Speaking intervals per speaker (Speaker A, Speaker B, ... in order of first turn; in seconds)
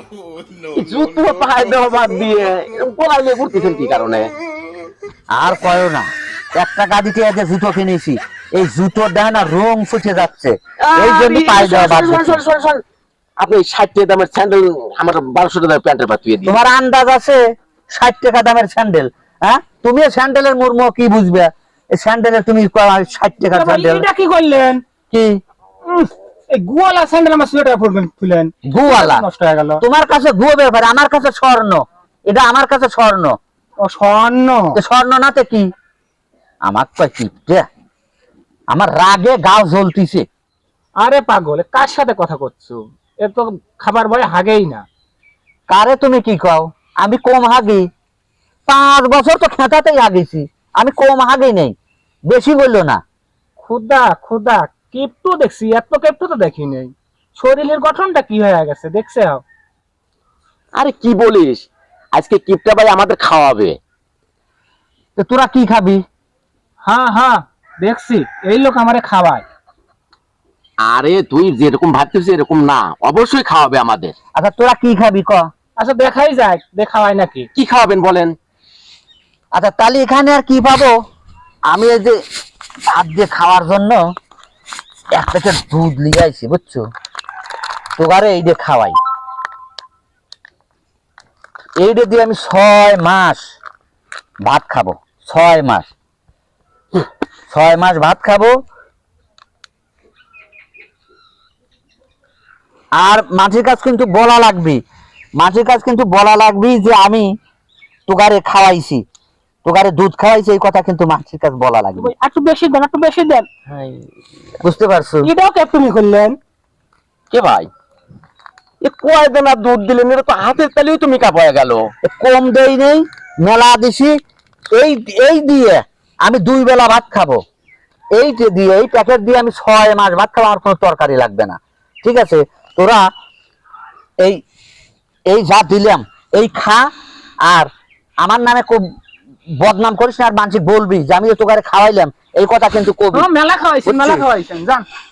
Speaker A: 0.7-4.3, 10.8-12.8, 13.4-16.6, 60.8-63.8, 70.8-74.1, 77.5-78.3, 113.7-114.1, 117.3-117.7, 118.8-121.8
Speaker B: 5.3-12.4, 16.4-17.4, 17.9-24.1, 25.1-25.4, 28.7-29.2, 29.8-33.3, 34.8-35.7, 36.6-37.7, 38.7-40.2, 45.7-47.9, 48.7-51.7, 52.3-53.0, 65.2-66.0, 74.4-75.5, 79.5-80.9, 81.7-82.2, 82.9-84.0, 85.1-86.8, 88.0-89.0, 91.8-93.4, 94.5-95.9, 97.5-98.5, 103.0-104.8, 105.4-107.3, 108.1-109.0, 109.6-112.1, 114.6-115.3, 122.0-124.2, 124.7-127.4, 128.2-133.0, 135.3-136.9, 138.2-138.8, 139.6-143.3, 143.8-144.2
Speaker C: 23.5-24.8, 25.9-29.8, 33.8-34.8, 41.0-44.8, 53.6-59.4, 66.8-69.4, 75.8-77.5, 112.0-113.5, 115.2-116.3, 143.1-144.8